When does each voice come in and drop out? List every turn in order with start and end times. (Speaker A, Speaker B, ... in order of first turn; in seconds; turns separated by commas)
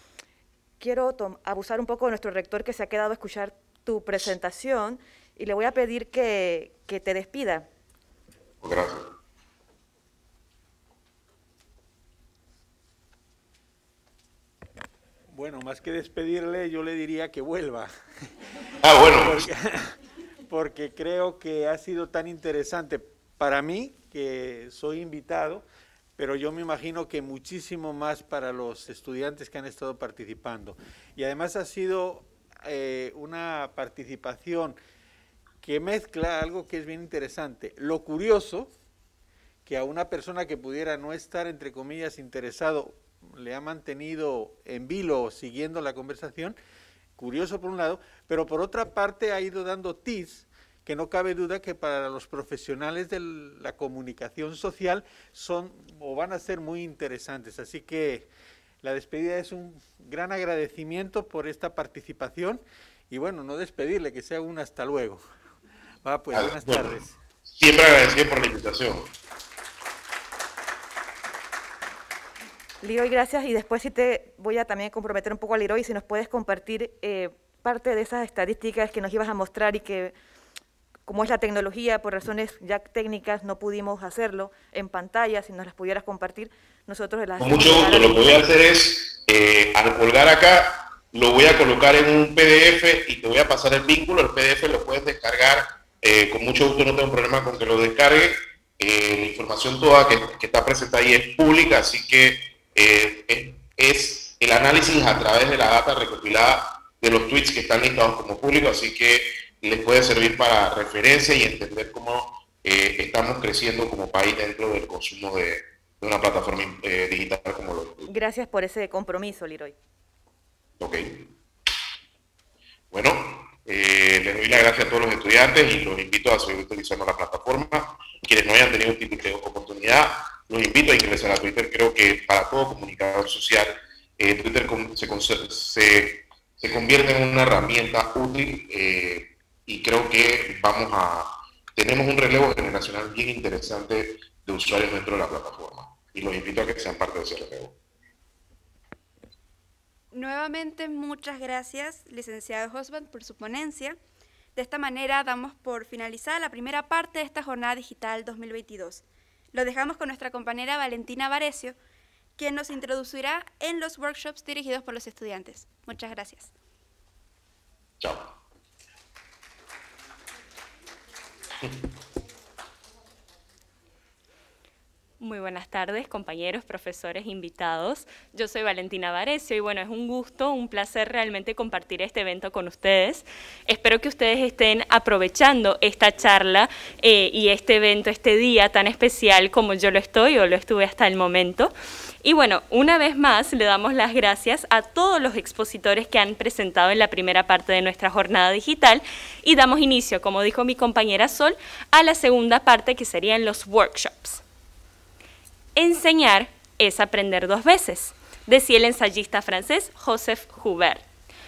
Speaker A: 0.8-7.7, Speaker B: 8.6-9.1, Speaker C: 15.3-17.9, Speaker B: 18.8-19.4, Speaker C: 19.2-19.9, Speaker C: 20.5-25.6, Speaker C: 26.2-34.8, Speaker C: 35.6-38.7, Speaker C: 39.6-46.5, Speaker C: 47.2-58.3, Speaker C: 58.8-65.2, Speaker C: 66.0-67.2, Speaker B: 66.3-69.1, Speaker A: 72.8-80.1, Speaker A: 81.0-88.5, Speaker B: 87.4-118.1, Speaker A: 118.1-119.8, Speaker B: 120.8-121.3, Speaker B: 122.9-147.7, Speaker D: 150.1-154.0, Speaker D: 154.6-161.8, Speaker D: 162.4-166.5, Speaker B: 168.0-168.3, Speaker E: 175.2-204.4, Speaker E: 205.7-211.0